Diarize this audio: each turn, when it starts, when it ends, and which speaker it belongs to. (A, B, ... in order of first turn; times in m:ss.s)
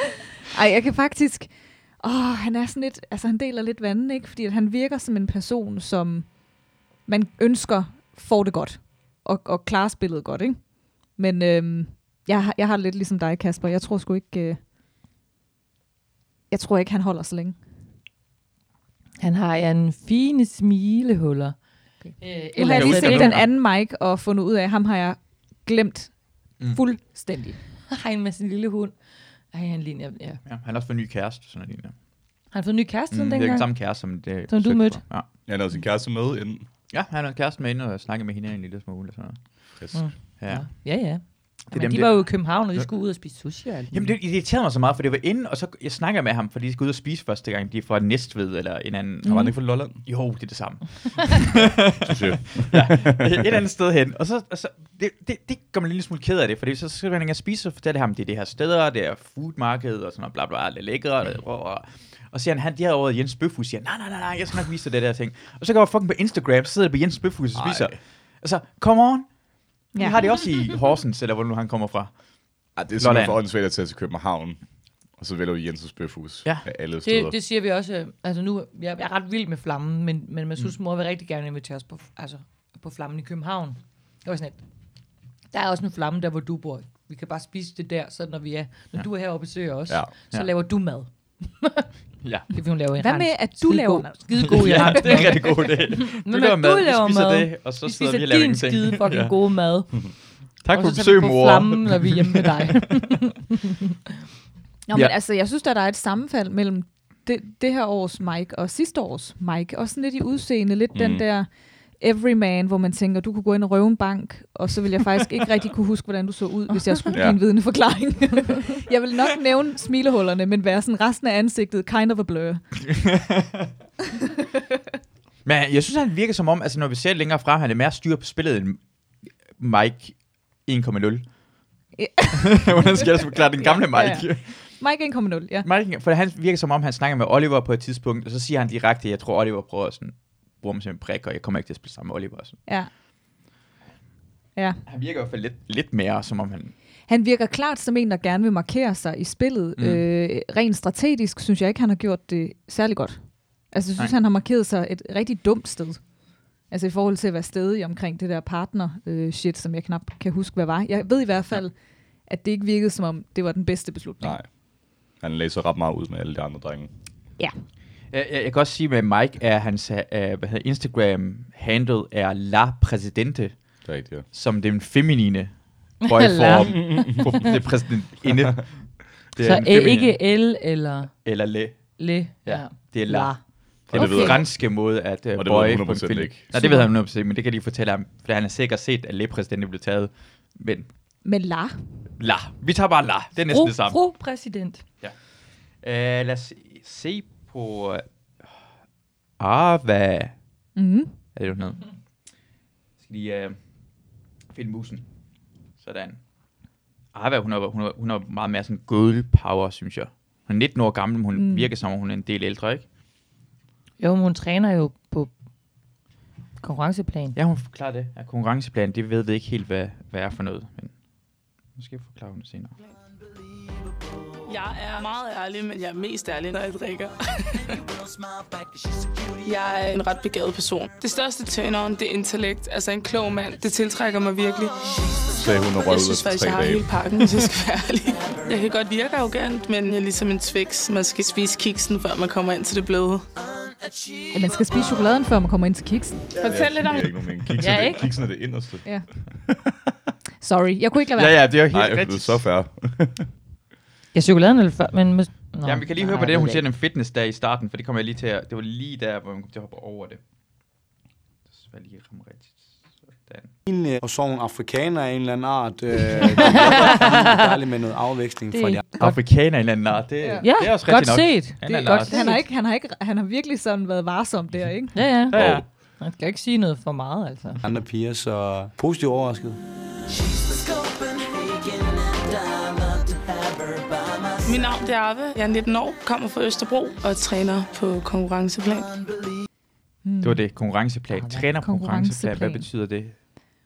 0:00.5-0:14.6 A
0:16.5-0:17.6 A
0:19.2-0:23.4 B
0:22.3-0:27.6 A
0:22.6-0:23.5 C
0:27.9-0:30.4 B
0:30.5-0:32.0 C
0:32.5-0:35.0 B
0:33.1-0:35.3 C
0:35.4-0:36.7 D
0:36.9-0:39.9 C
0:39.8-0:40.1 D
0:39.9-0:44.1 B
0:40.4-0:41.1 C
0:41.7-0:42.9 C
0:43.9-1:13.4 C
0:49.2-0:50.0 D
0:52.0-0:53.4 D
1:07.5-1:08.0 D
1:09.9-1:10.2 A
1:12.7-1:14.6 D
1:15.1-1:17.4 D
1:17.0-1:24.6 B
1:25.5-1:31.9 B
1:32.2-1:32.5 C
1:32.5-1:43.4 B
1:33.0-1:35.3 A
1:34.4-1:39.4 C
1:40.6-1:42.7 C
1:44.9-2:02.6 A
1:50.9-1:51.2 D
1:57.1-1:57.4 D
2:02.9-2:03.7 C
2:05.4-2:11.6 C
2:12.0-2:12.6 A
2:12.4-2:14.8 C
2:13.6-2:15.7 A
2:15.6-2:22.6 C
2:24.9-2:26.7 C
2:27.1-2:44.4 A
2:29.8-2:30.0 C
2:44.2-2:46.9 D
2:48.1-3:00.2 C
2:53.8-2:54.3 D
2:56.0-2:57.4 B
2:56.6-2:57.3 D
2:59.4-3:01.3 B
3:01.2-3:10.9 C
3:02.0-3:04.4 B
3:03.9-3:06.5 D
3:06.6-3:06.9 A
3:11.2-3:11.8 A
3:12.2-3:14.0 C
3:13.4-3:14.9 B
3:15.7-3:18.0 C
3:19.4-3:20.4 C
3:20.8-3:21.1 A
3:21.4-3:22.0 C
3:23.0-3:23.6 C
3:24.5-3:25.1 C
3:25.8-3:26.2 C
3:27.1-3:32.8 C
3:31.3-3:31.7 A
3:34.0-3:35.3 B
3:36.6-3:37.4 B
3:37.4-3:40.9 C
3:41.7-3:42.8 C
3:44.5-3:47.8 E
3:49.4-4:03.3 E
3:55.3-3:57.4 D
4:04.3-4:06.3 A
4:06.4-4:07.1 E
4:06.4-4:08.9 D
4:07.6-4:08.1 B
4:10.4-4:11.4 A
4:11.1-4:12.5 C
4:11.7-4:13.3 D
4:14.1-4:16.6 B
4:15.6-4:20.2 C
4:21.5-4:23.5 C
4:23.6-4:29.0 F
4:26.6-4:27.2 B
4:28.5-4:29.1 B
4:29.0-4:32.4 C
4:30.2-4:30.5 A
4:30.4-4:32.4 B
4:31.6-4:35.0 A
4:34.9-4:37.6 B
4:35.3-4:35.6 C
4:35.3-4:35.6 D
4:37.6-4:39.6 F
4:44.4-4:49.0 E
4:50.0-4:50.4 A
4:50.2-4:53.2 C
4:51.1-4:51.4 B
4:51.6-4:52.6 A